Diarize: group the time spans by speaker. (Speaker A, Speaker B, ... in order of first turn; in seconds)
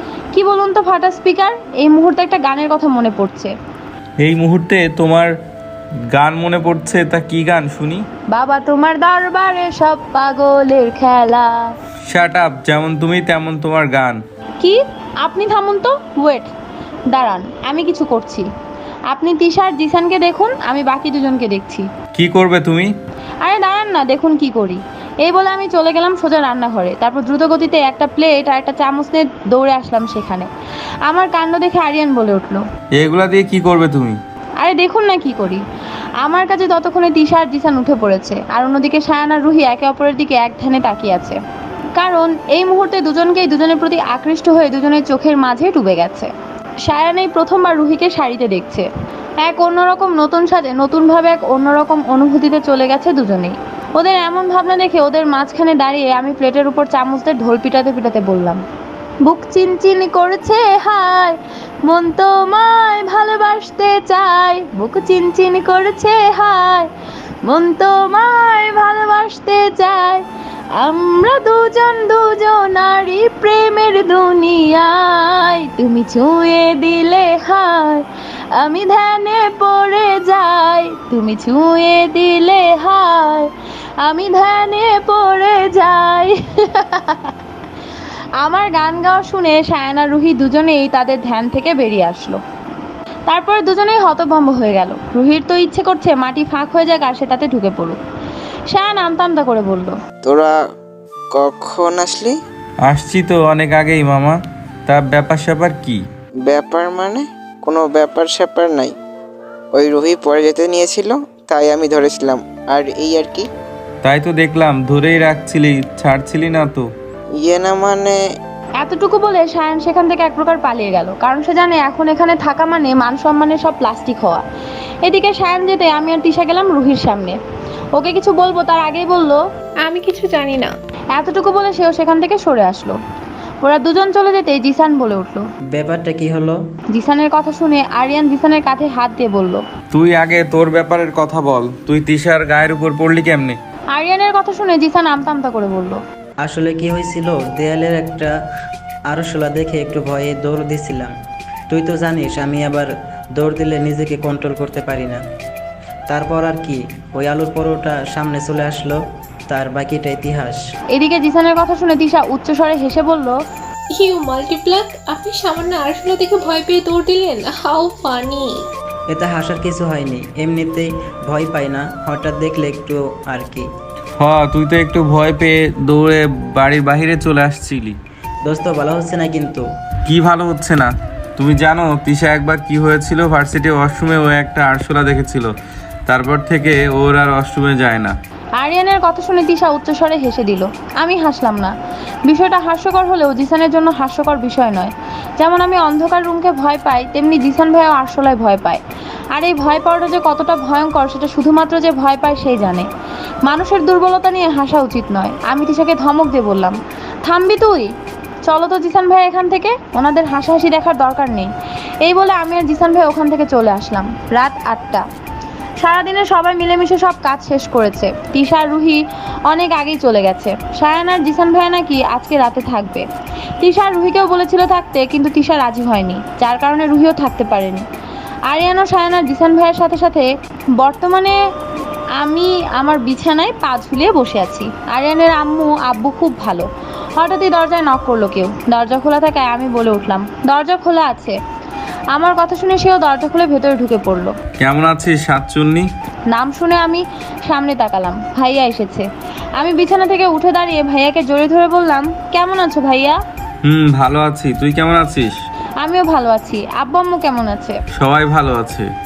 Speaker A: 0.3-3.5, 8.3-11.7, 14.6-16.5, 17.1-18.5, 19.1-21.9, 23.4-30.5, 31.1-32.6, 34.6-35.6, 36.2-41.4, 42.0-46.3, 46.9-48.9, 49.4-58.6, 59.2-66.9, 67.4-70.3, 70.8-87.3, 88.4-92.4, 93.3-98.0, 98.7-100.0, 118.8-124.4, 125.0-127.4, 127.9-129.4, 131.1-133.0, 133.6-135.4, 136.9-139.6, 143.9-146.0, 160.9-163.4, 188.6-191.7, 192.3-198.8, 199.3-202.9, 203.4-207.9, 208.5-211.5, 212.0-215.1, 215.8-223.1, 223.6-227.8, 228.5-230.3, 230.8-231.4, 232.2-241.4, 242.1-244.3, 246.3-249.1, 249.6-253.2, 255.8-257.8
Speaker B: 4.2-5.3, 6.1-8.0, 12.1-14.2, 22.1-22.9, 33.0-34.2, 102.8-106.0, 114.0-116.9, 139.9-143.6, 174.2-178.0, 180.1-185.5, 186.1-188.1, 244.6-245.9, 253.6-255.4, 258.0-258.9
Speaker C: 100.2-100.5, 101.3-102.4, 106.4-109.0, 109.7-113.5, 117.4-118.2
Speaker D: 129.8-130.7, 164.0-168.5
Speaker E: 135.7-136.6, 146.4-148.3, 149.1-151.1, 151.7-155.2, 156.1-160.6, 169.1-173.7, 178.5-179.7